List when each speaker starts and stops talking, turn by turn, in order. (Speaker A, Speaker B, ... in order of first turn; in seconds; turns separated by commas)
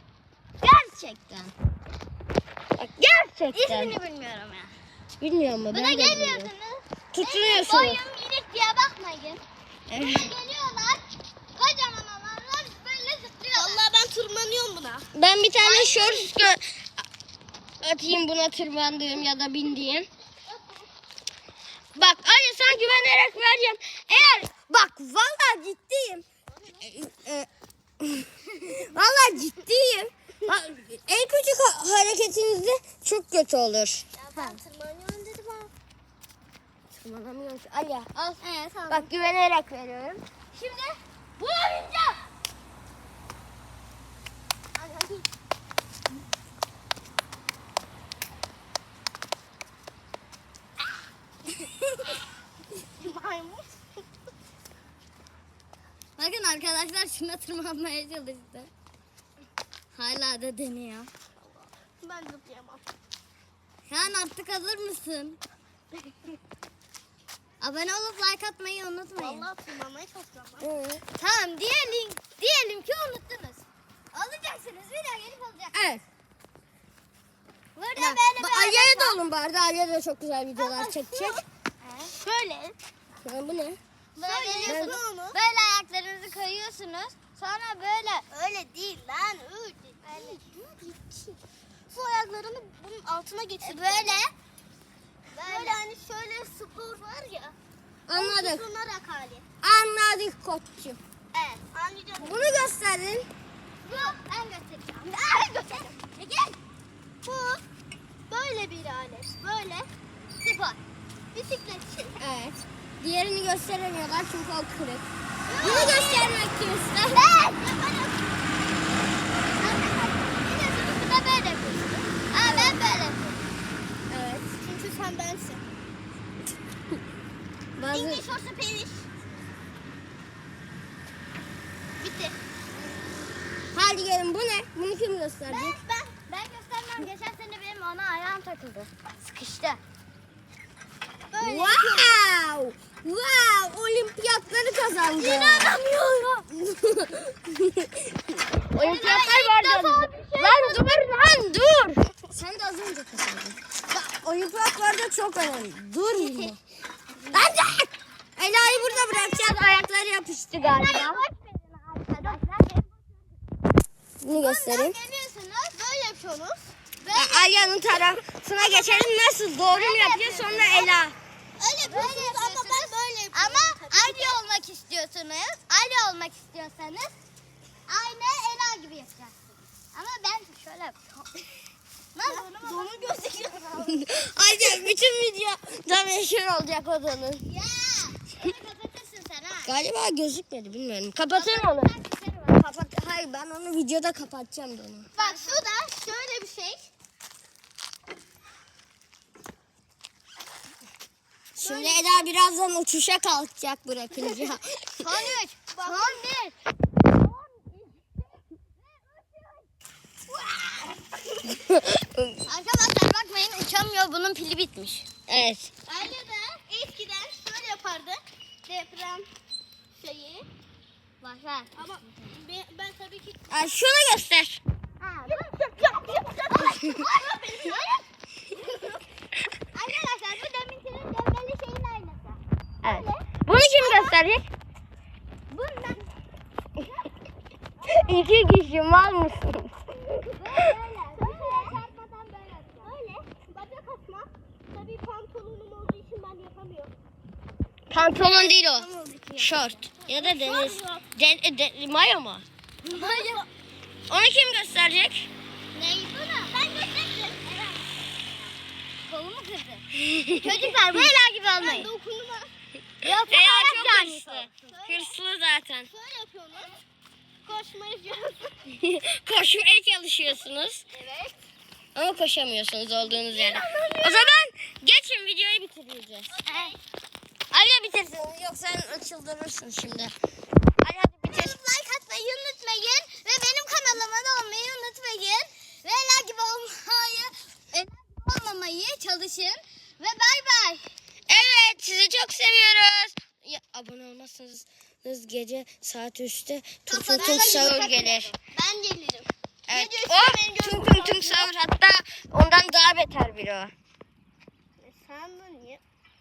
Speaker A: 0.6-1.3, Speaker B: 0.7-1.5, Speaker A: 2.8-3.9, Speaker B: 3.5-4.7, Speaker A: 5.2-6.5, Speaker B: 5.7-9.4, Speaker A: 7.1-8.0, Speaker A: 9.9-10.3, Speaker B: 10.0-13.8, Speaker C: 13.5-15.1, Speaker A: 15.1-16.8, Speaker B: 15.6-16.3, Speaker A: 17.8-20.1, Speaker A: 21.9-26.2, Speaker C: 26.5-26.8, Speaker A: 26.8-27.5, Speaker A: 28.0-34.1, Speaker C: 34.1-35.7, Speaker B: 34.4-34.6, Speaker A: 36.9-38.3, Speaker B: 38.2-39.1, Speaker A: 38.9-40.2, Speaker B: 40.5-42.2, Speaker C: 44.8-45.2, Speaker C: 53.0-54.0, Speaker B: 56.2-58.7, Speaker B: 59.9-61.1, Speaker C: 61.4-62.9, Speaker B: 63.9-65.4, Speaker B: 67.6-69.5, Speaker C: 69.2-70.7, Speaker A: 70.6-71.0, Speaker B: 71.2-75.8, Speaker A: 75.7-76.0, Speaker B: 77.8-79.2, Speaker A: 78.0-81.5, Speaker C: 80.6-81.5, Speaker B: 81.8-82.1, Speaker C: 82.1-82.8, Speaker A: 83.2-83.8, Speaker B: 84.2-88.3, Speaker C: 84.2-85.4, Speaker A: 84.7-85.0, Speaker C: 88.3-90.4, Speaker B: 90.0-91.4, Speaker C: 91.9-94.2, Speaker B: 93.6-94.3, Speaker B: 95.4-95.8, Speaker C: 95.4-97.5, Speaker A: 98.1-98.6, Speaker C: 98.1-99.4, Speaker A: 99.6-101.0, Speaker C: 101.3-102.7, Speaker A: 102.2-103.3, Speaker B: 103.8-106.6, Speaker C: 103.9-104.2, Speaker C: 105.1-105.9, Speaker C: 107.2-107.6, Speaker C: 108.3-109.9, Speaker B: 110.4-110.8, Speaker C: 111.3-112.2, Speaker A: 112.2-115.1, Speaker C: 115.5-116.4, Speaker A: 115.6-117.3, Speaker C: 117.1-118.4, Speaker B: 117.3-117.6, Speaker B: 119.5-121.6, Speaker C: 120.5-121.7, Speaker B: 122.3-123.4, Speaker A: 122.4-122.8, Speaker A: 124.1-124.5, Speaker C: 124.6-125.7, Speaker A: 127.8-128.2, Speaker C: 127.9-129.1, Speaker C: 132.0-132.3, Speaker A: 133.7-135.8, Speaker C: 135.5-136.1, Speaker B: 136.3-139.8, Speaker C: 141.3-142.2, Speaker A: 141.4-145.8, Speaker B: 145.2-146.5, Speaker A: 146.5-156.6, Speaker B: 148.7-151.0, Speaker A: 157.3-161.2, Speaker B: 158.6-159.7, Speaker B: 160.6-163.1, Speaker A: 164.2-165.0, Speaker B: 164.3-165.8, Speaker C: 165.7-166.7, Speaker B: 167.0-168.1, Speaker A: 167.1-171.2, Speaker B: 168.6-169.1, Speaker B: 169.7-171.0, Speaker C: 171.6-174.4, Speaker B: 171.8-177.1, Speaker B: 177.9-181.3, Speaker B: 182.1-183.4, Speaker C: 182.3-184.1, Speaker A: 183.8-187.5, Speaker B: 187.4-189.8, Speaker A: 189.7-191.9, Speaker B: 191.3-192.6, Speaker A: 192.5-195.1, Speaker B: 195.2-195.6, Speaker C: 195.2-196.9, Speaker A: 201.6-205.1, Speaker C: 201.6-202.2, Speaker B: 205.0-206.6, Speaker C: 205.7-206.2, Speaker B: 207.2-208.0, Speaker B: 208.8-209.7, Speaker B: 210.5-210.8, Speaker A: 211.6-212.4, Speaker B: 212.4-215.1, Speaker A: 215.3-215.7, Speaker C: 215.9-219.3, Speaker C: 220.0-220.5, Speaker B: 221.2-222.3, Speaker C: 221.8-223.7, Speaker A: 223.5-224.6, Speaker B: 225.0-228.0, Speaker C: 225.3-227.9, Speaker C: 228.6-228.9, Speaker B: 229.7-234.2, Speaker A: 232.8-234.5, Speaker B: 235.5-236.1, Speaker A: 237.8-239.7, Speaker B: 240.3-243.3, Speaker C: 241.1-241.8, Speaker C: 242.8-246.9, Speaker A: 247.9-252.4, Speaker B: 248.0-249.9, Speaker C: 250.1-251.1, Speaker B: 252.8-253.5, Speaker C: 252.9-253.4, Speaker A: 254.1-255.3, Speaker B: 255.7-256.6, Speaker C: 256.5-257.6, Speaker B: 257.5-257.8, Speaker B: 259.1-261.9, Speaker A: 260.1-260.4, Speaker C: 260.9-262.5, Speaker B: 263.0-264.5, Speaker A: 263.1-265.9, Speaker C: 264.6-265.1, Speaker C: 265.9-266.8, Speaker C: 267.4-268.6, Speaker A: 268.7-270.8, Speaker C: 270.9-271.3, Speaker A: 271.9-276.3, Speaker C: 273.2-274.3, Speaker C: 276.3-276.8, Speaker B: 276.5-276.7, Speaker A: 277.5-280.1, Speaker A: 280.8-281.6, Speaker B: 281.2-290.8, Speaker A: 291.3-298.3, Speaker B: 296.9-297.6, Speaker C: 297.0-301.5, Speaker A: 299.7-303.7, Speaker C: 304.8-305.8